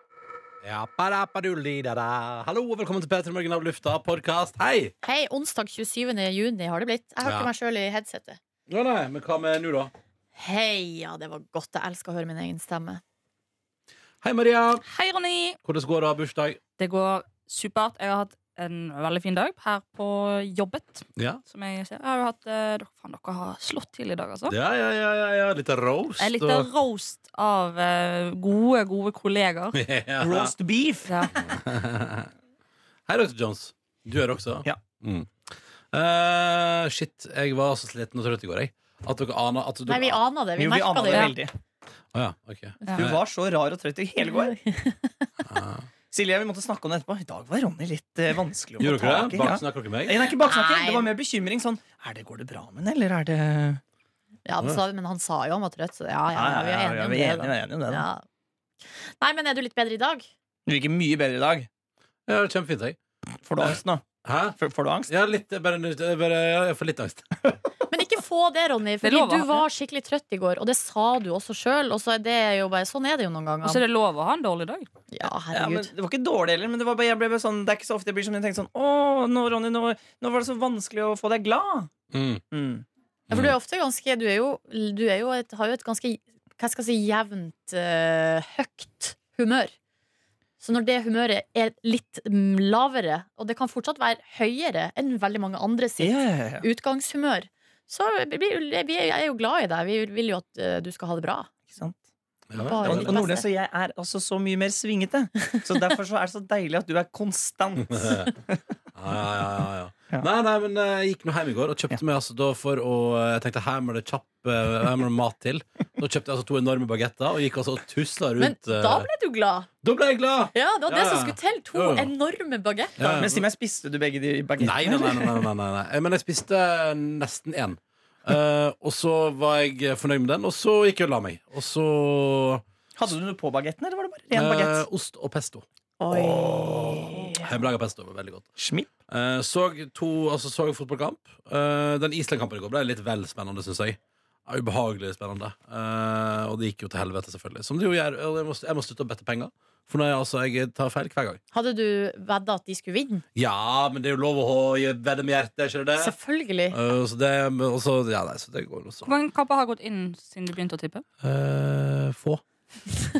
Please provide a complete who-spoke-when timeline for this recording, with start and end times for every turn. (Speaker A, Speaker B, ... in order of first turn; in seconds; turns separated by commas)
Speaker A: 0.6-4.9, Speaker B: 5.0-8.4, Speaker A: 7.2-7.5, Speaker A: 8.7-9.9, Speaker B: 10.3-13.0, Speaker A: 14.2-14.8, Speaker C: 14.8-15.6, Speaker A: 15.6-16.6, Speaker C: 16.8-24.5, Speaker A: 24.5-26.7, Speaker C: 26.2-29.8, Speaker A: 29.7-30.5, Speaker D: 30.2-31.3, Speaker C: 31.1-31.3, Speaker A: 31.4-32.3, Speaker A: 33.1-35.3, Speaker A: 35.9-40.2, Speaker B: 39.9-41.3, Speaker D: 40.6-41.5, Speaker A: 42.1-43.2, Speaker C: 42.8-43.1, Speaker D: 42.9-44.5, Speaker B: 44.4-45.3, Speaker A: 45.4-45.9, Speaker D: 46.1-53.8, Speaker A: 48.8-50.2, Speaker B: 50.5-51.1, Speaker B: 54.5-58.2, Speaker D: 56.3-58.1, Speaker B: 59.2-60.3, Speaker D: 60.7-61.7, Speaker A: 62.3-63.0, Speaker D: 63.4-64.0, Speaker A: 64.2-64.5, Speaker D: 64.5-65.1, Speaker A: 65.1-67.3, Speaker B: 67.9-73.8, Speaker C: 69.0-69.7, Speaker C: 73.6-74.9, Speaker B: 75.1-75.9, Speaker D: 75.4-81.9, Speaker A: 82.1-82.4, Speaker D: 82.5-82.8, Speaker A: 83.3-83.5, Speaker B: 83.3-89.7, Speaker B: 90.6-101.5, Speaker D: 96.0-96.7, Speaker D: 101.6-102.0, Speaker A: 102.5-103.2, Speaker D: 102.5-108.6, Speaker B: 102.6-103.5, Speaker A: 107.9-108.3, Speaker A: 108.9-119.1, Speaker B: 118.4-119.7, Speaker A: 119.8-122.1, Speaker B: 120.5-123.0, Speaker A: 123.0-123.4, Speaker D: 123.0-125.5, Speaker A: 124.6-132.6, Speaker D: 133.0-134.8, Speaker A: 134.3-135.6, Speaker B: 136.0-137.5, Speaker A: 137.4-138.5, Speaker D: 138.6-138.9, Speaker A: 139.1-151.4, Speaker B: 151.5-153.2, Speaker A: 153.3-156.2, Speaker B: 156.0-156.8, Speaker A: 156.7-159.1, Speaker C: 159.1-161.0, Speaker A: 161.2-162.4